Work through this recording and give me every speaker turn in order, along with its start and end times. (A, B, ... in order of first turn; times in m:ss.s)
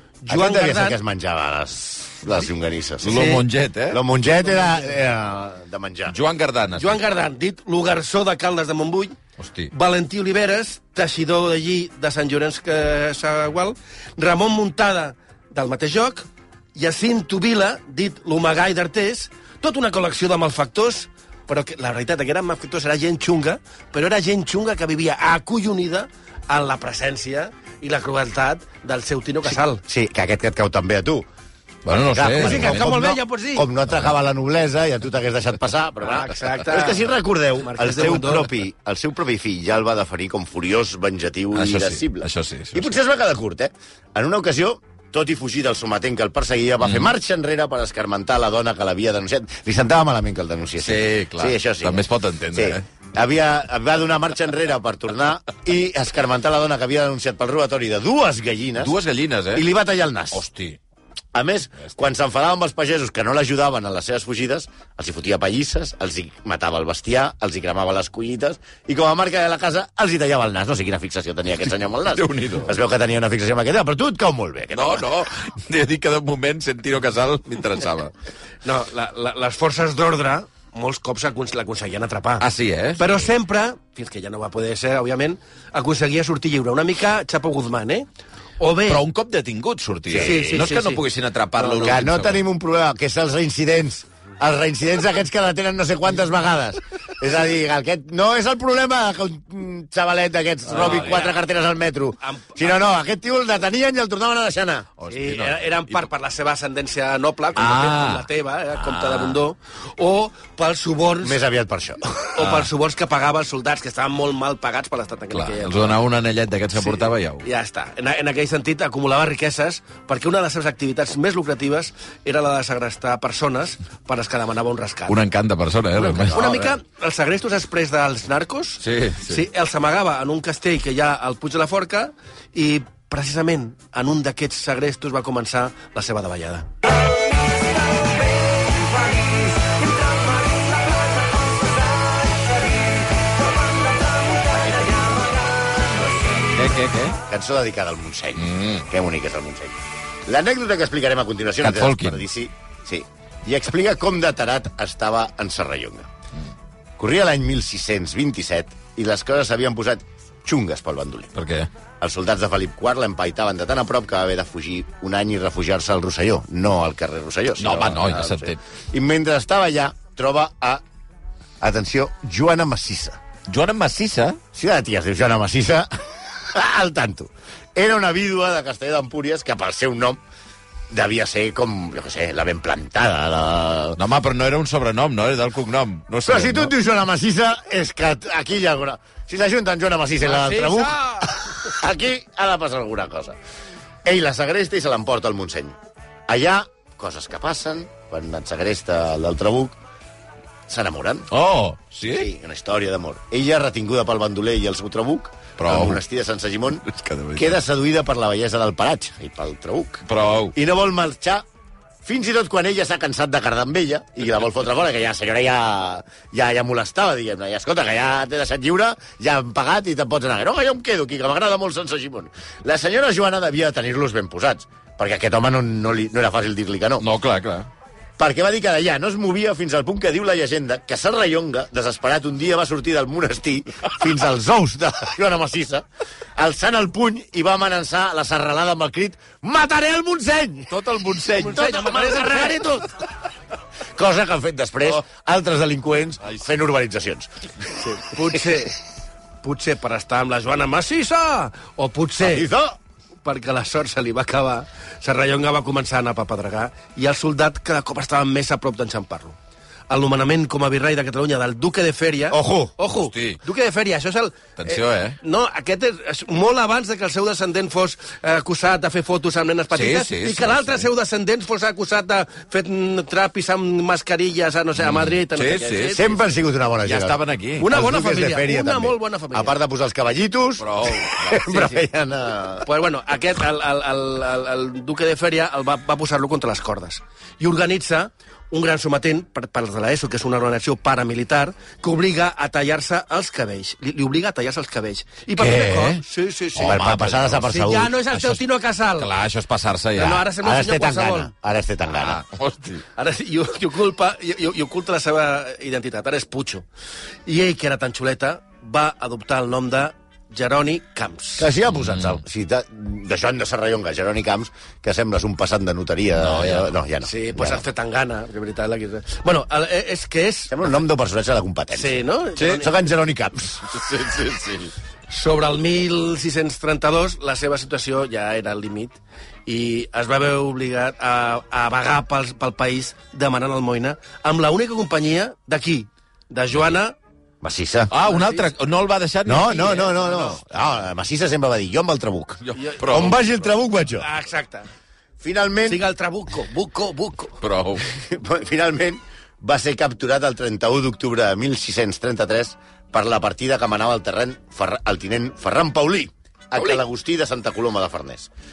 0:00.2-0:01.0 A
0:00.3-0:03.4 B
0:03.0-0:04.0 C
0:03.1-0:03.4 A
0:03.9-0:06.2 B
0:06.1-0:07.0 C
0:06.8-0:09.2 A
0:09.4-0:09.7 C
0:09.7-0:29.8 A
0:29.8-0:31.2 B
0:31.8-0:32.9 C
0:32.1-0:58.9 B
0:32.4-0:33.7 A
0:36.0-0:38.6 A
0:41.5-0:42.9 C
0:46.8-0:47.1 C
0:50.8-0:52.8 C
0:58.8-0:59.6 C
0:59.5-1:00.4 B
1:00.3-1:00.8 C
1:01.3-1:15.1 B
1:12.1-1:12.7 C
1:14.7-1:18.1 C
1:18.6-1:22.4 A
1:22.4-1:23.1 C
1:23.0-1:28.1 A
1:28.6-1:29.0 A
1:28.8-1:32.4 C
1:30.1-1:30.5 B
1:30.2-1:31.0 A
1:31.6-1:31.9 A
1:31.8-1:44.9 B
1:40.7-1:41.4 A
1:40.7-1:41.2 C
1:42.2-1:42.8 A
1:45.0-1:46.1 C
1:45.1-1:51.4 A
1:47.6-1:49.4 C
1:51.2-1:52.3 B
1:52.3-1:56.0 A
1:52.4-1:52.7 C
1:55.3-1:57.4 C
1:56.8-2:05.2 A
2:05.1-2:06.4 C
2:06.0-2:16.7 A
2:06.3-2:06.7 B
2:08.8-2:09.4 C
2:18.7-2:25.8 A
2:24.5-2:26.6 B
2:26.5-2:27.2 C
2:27.2-2:36.1 B
2:28.4-2:28.8 C
2:31.6-2:32.2 C
2:37.0-2:41.4 B
2:41.4-2:41.7 C
2:42.0-2:50.8 B
2:47.6-2:48.6 C
2:51.6-2:53.2 B
2:53.5-2:54.4 C
2:54.5-3:00.2 B
3:00.9-3:04.0 B
3:04.0-3:06.7 C
3:06.3-3:13.4 B
3:10.2-3:11.3 A
3:14.0-3:15.8 B
3:16.3-3:19.8 B
3:20.7-3:21.3 B
3:21.3-3:22.3 C
3:22.1-3:31.4 B
3:25.6-3:26.0 C
3:26.9-3:27.6 C
3:30.1-3:30.6 C
3:32.0-3:47.0 B
3:47.0-3:47.7 C
3:48.2-3:55.8 B
3:56.4-4:00.7 B
4:00.7-4:02.0 C
4:01.3-4:02.6 A
4:01.3-4:02.9 B
4:03.9-4:07.3 B
4:07.8-4:08.8 A
4:09.4-4:12.5 A
4:12.2-4:12.8 B
4:13.2-4:19.4 A
4:19.9-4:36.2 A
4:22.3-4:22.7 B
4:22.9-4:23.4 C
4:24.6-4:25.2 C
4:29.7-4:30.9 C
4:34.8-4:36.0 C
4:35.9-4:42.7 B
4:36.8-4:37.7 C
4:37.6-4:39.6 A
4:40.6-4:41.5 C
4:41.5-4:41.8 A
4:42.6-4:59.1 A
4:55.4-4:56.0 C
4:56.5-4:57.4 C
4:56.6-4:57.9 B
4:58.1-4:58.4 C
4:59.0-5:00.3 C
5:00.0-5:01.3 A
5:00.3-5:02.2 B
5:02.0-5:02.8 C
5:03.0-5:06.6 A
5:07.2-5:11.5 A
5:11.4-5:17.6 B
5:16.1-5:16.7 C
5:17.0-5:20.5 A
5:20.5-5:22.0 B
5:21.7-5:22.8 A
5:22.4-5:22.6 C
5:22.6-5:23.7 B
5:23.7-5:24.7 C
5:25.1-5:37.0 A
5:37.4-5:37.9 B
5:37.9-5:39.8 C
5:38.0-5:38.5 A
5:39.2-5:44.1 B
5:39.5-5:40.4 A
5:42.4-5:43.2 C
5:42.6-5:43.0 A
5:44.0-5:44.7 A
5:45.2-5:45.8 B
5:45.6-5:47.4 A
5:47.4-5:47.9 C
5:47.9-5:58.3 B